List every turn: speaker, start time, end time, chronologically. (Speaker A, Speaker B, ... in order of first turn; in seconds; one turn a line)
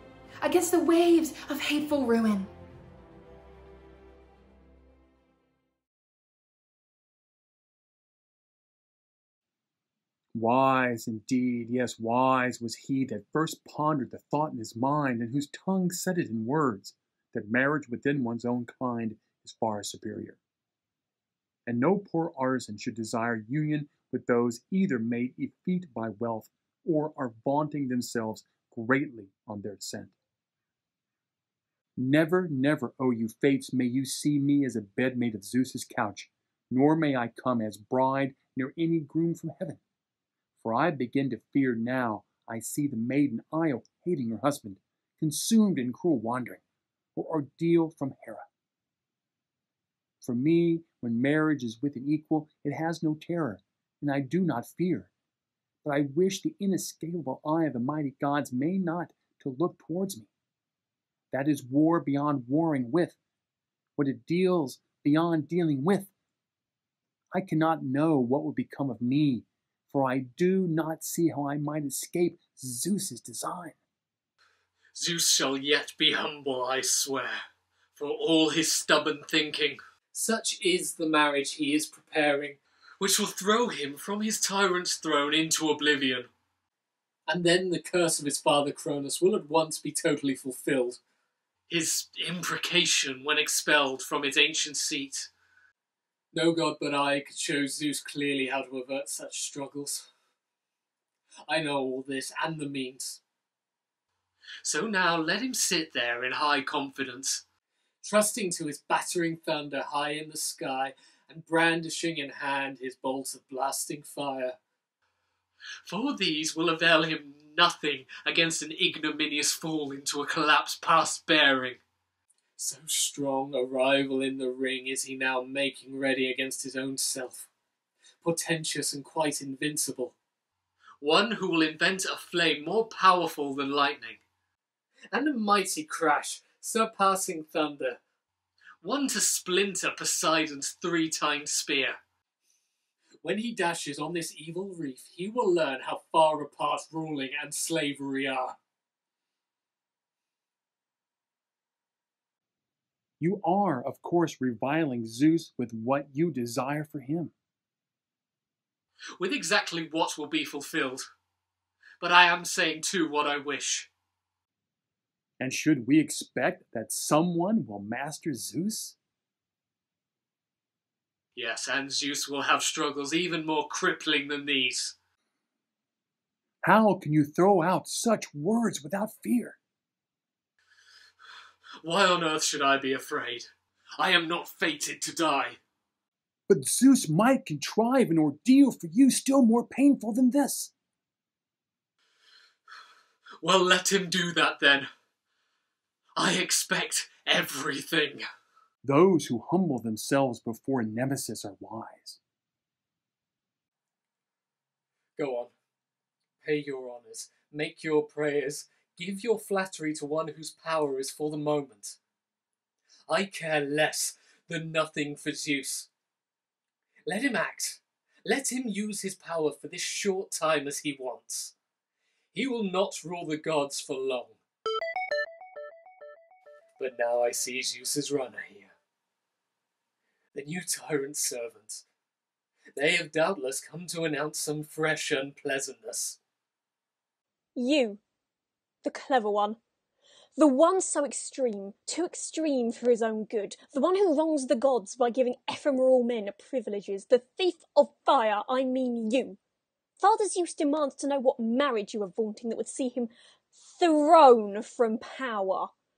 Speaker A: 0.4-2.5
Speaker B: 10.3-20.4
Speaker B: 21.7-30.1
Speaker B: 32.0-39.8
Speaker B: 40.6-46.6
Speaker B: 47.2-48.5
Speaker B: 50.2-55.1
Speaker B: 55.8-60.3
Speaker B: 61.3-63.2
Speaker B: 64.0-66.1
Speaker B: 67.3-73.8
Speaker C: 75.0-77.4
Speaker C: 78.0-86.3
Speaker C: 87.3-91.0
Speaker C: 91.7-95.3
Speaker C: 96.3-100.1
Speaker C: 101.5-103.2
Speaker C: 104.6-107.4
Speaker C: 108.0-114.6
Speaker C: 115.9-121.8
Speaker C: 122.6-127.5
Speaker C: 128.2-130.2
Speaker C: 131.0-134.2
Speaker C: 135.1-138.0
Speaker C: 138.8-142.0
Speaker C: 143.2-148.6
Speaker B: 153.2-157.3
Speaker C: 159.2-161.1
Speaker C: 162.0-163.9
Speaker B: 165.4-169.0
Speaker C: 171.3-175.0
Speaker B: 176.6-179.6
Speaker C: 181.8-185.6
Speaker B: 186.5-190.7
Speaker C: 193.4-194.9
Speaker C: 196.2-198.2
Speaker B: 198.8-202.2
Speaker C: 205.2-205.5
Speaker C: 206.4-212.0
Speaker C: 213.1-215.9
Speaker C: 217.1-221.5
Speaker C: 222.3-224.4
Speaker C: 226.8-228.7
Speaker C: 230.3-231.8
Speaker C: 232.8-236.2
Speaker D: 237.6-238.0
Speaker D: 238.8-239.6
Speaker D: 240.4-249.4
Speaker D: 250.0-255.7